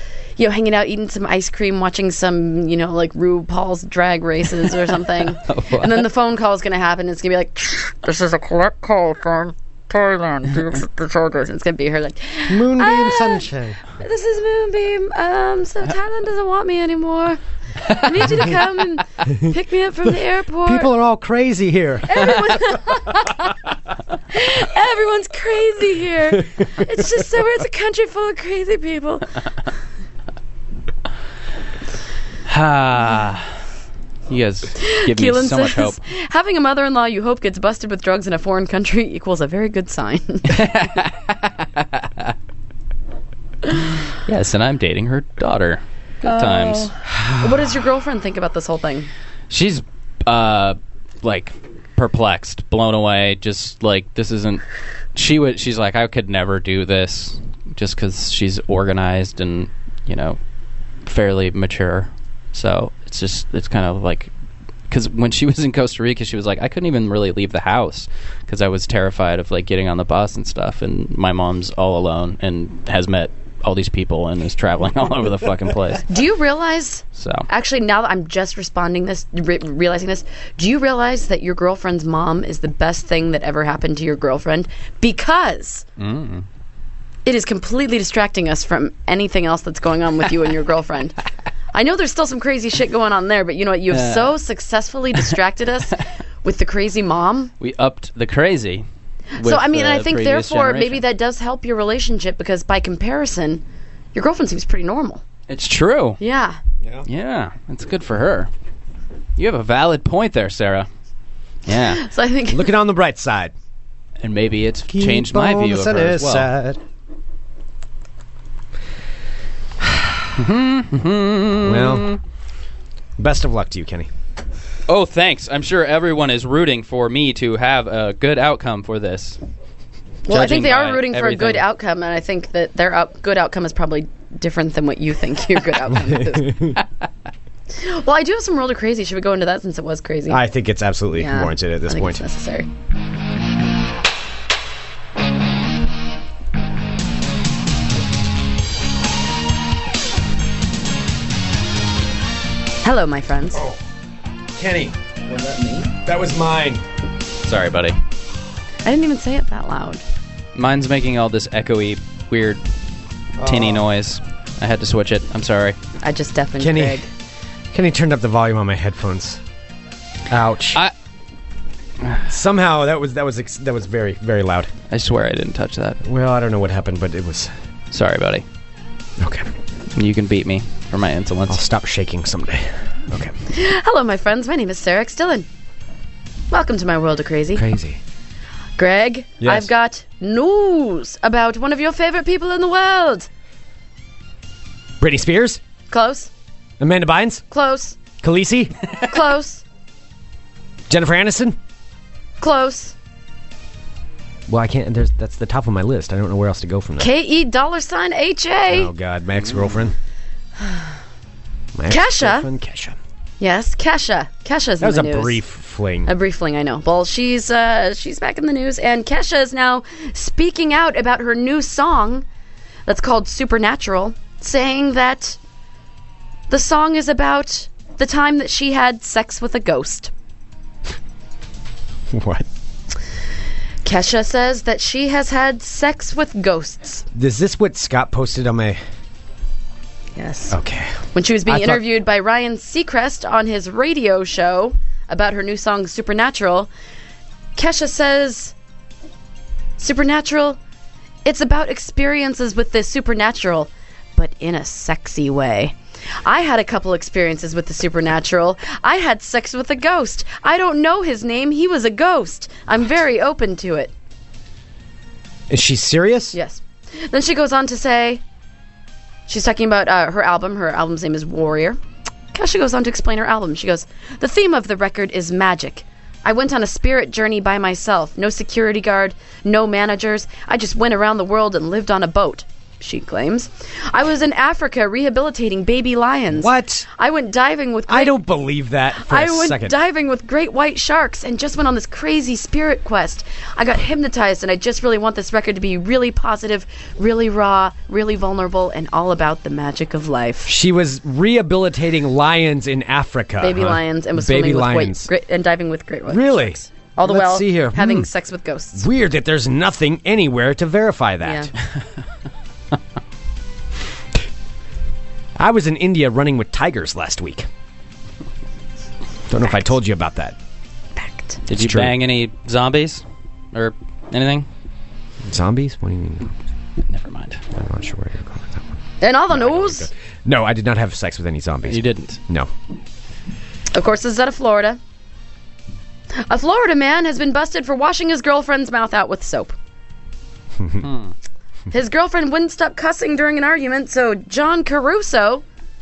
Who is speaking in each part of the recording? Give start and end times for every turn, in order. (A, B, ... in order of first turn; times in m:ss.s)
0:00.4-0:13.5 A
0:05.4-0:06.1 B
0:12.5-0:13.8 C
0:14.0-0:20.9 A
0:20.6-0:22.5 C
0:22.1-0:23.6 A
0:24.3-0:29.3 A
0:32.5-0:33.5 B
0:34.3-0:36.0 B
0:34.8-0:40.6 A
0:40.5-0:42.3 B
0:44.2-0:46.9 B
0:46.2-0:49.1 A
0:49.5-0:54.6 B
0:55.2-1:00.4 B
1:01.0-1:04.3 B
1:04.9-1:16.1 B
1:16.1-1:25.8 A
1:17.2-1:17.5 B
1:26.0-1:26.5 B
1:27.2-1:31.2 A
1:31.7-1:37.5 A
1:33.9-1:34.4 B
1:37.6-1:38.9 B
1:39.4-1:41.0 B
1:39.4-1:43.6 A
1:44.1-1:45.2 A
1:45.5-1:46.2 B
1:46.2-1:46.6 A
1:47.1-1:48.5 B
1:49.4-1:50.9 B
1:51.7-1:52.0 B
1:52.0-1:52.7 A
1:52.5-1:53.5 C
1:54.2-1:56.5 B
1:54.9-1:56.8 C
2:00.4-2:02.2 B
2:01.6-2:02.1 C
2:03.2-2:04.1 C
2:04.9-2:09.4 B
2:10.3-2:16.8 A
2:10.3-2:11.6 B
2:16.1-2:16.8 C
2:17.7-2:20.4 A
2:20.3-2:22.2 C
2:21.2-2:22.7 A
2:32.8-2:33.6 A
2:33.5-2:33.8 C
2:34.5-2:35.0 C
2:35.9-2:36.8 C
2:37.4-2:38.0 B
2:38.8-2:40.0 A
2:40.6-2:42.6 B
2:43.4-2:43.8 C
2:43.4-2:45.8 B
2:46.0-2:47.1 A
2:46.6-2:47.0 C
2:47.7-2:49.4 C
2:50.3-2:50.8 C
2:52.0-2:52.3 B
2:52.3-2:54.7 C
2:54.9-2:56.0 B
2:56.0-2:57.5 C
2:57.9-2:58.4 B
2:59.2-2:59.5 C
3:00.0-3:01.6 B
3:01.5-3:03.3 C
3:03.5-3:05.5 A
3:06.5-3:07.6 A
3:07.5-3:08.0 C
3:08.8-3:13.3 A
3:09.4-3:09.7 C
3:15.0-3:15.6 C
3:15.9-3:16.3 A
3:16.8-3:17.4 C
3:17.5-3:18.0 A
3:18.2-3:18.8 C
3:19.1-3:19.6 A
3:20.9-3:21.6 C
3:22.4-3:23.0 A
3:24.5-3:27.1 C
3:27.0-3:28.9 A
3:28.7-3:30.0 C
3:31.8-3:33.0 C
3:31.9-3:32.5 A
3:33.4-3:35.4 A
3:34.8-3:36.1 C
3:36.1-3:42.2 A
3:42.9-3:45.4 A
3:46.5-3:50.1 A
3:52.1-3:52.5 C
3:53.8-3:57.0 A
3:57.1-3:58.8 C
4:00.2-4:00.6 A
4:00.5-4:01.8 C
4:01.1-4:06.7 A
4:07.6-4:08.5 A
4:09.8-4:10.6 A
4:11.2-4:23.9 A
4:25.5-4:26.4 C
4:26.3-4:28.2 A
4:29.3-4:31.8 A
4:32.3-4:48.2 A
4:46.3-4:46.9 C
4:47.9-4:49.7 C
4:49.0-5:00.5 A
5:00.5-5:05.1 C
5:03.4-5:08.9 A
5:06.1-5:08.1 C
5:08.8-5:11.5 C
5:11.2-5:11.5 A
5:15.4-5:17.5 C
5:19.3-5:20.4 C
5:21.0-5:21.4 A
5:21.5-5:24.5 B
5:21.5-5:22.0 C
5:25.2-5:26.3 C
5:26.9-5:27.4 B
5:27.5-5:28.7 C
5:29.0-5:29.9 A
5:29.3-5:32.5 C
5:31.7-5:32.2 B
5:33.7-5:34.8 A
5:36.3-5:39.6 A
5:40.8-5:41.1 B
5:41.7-5:45.4 A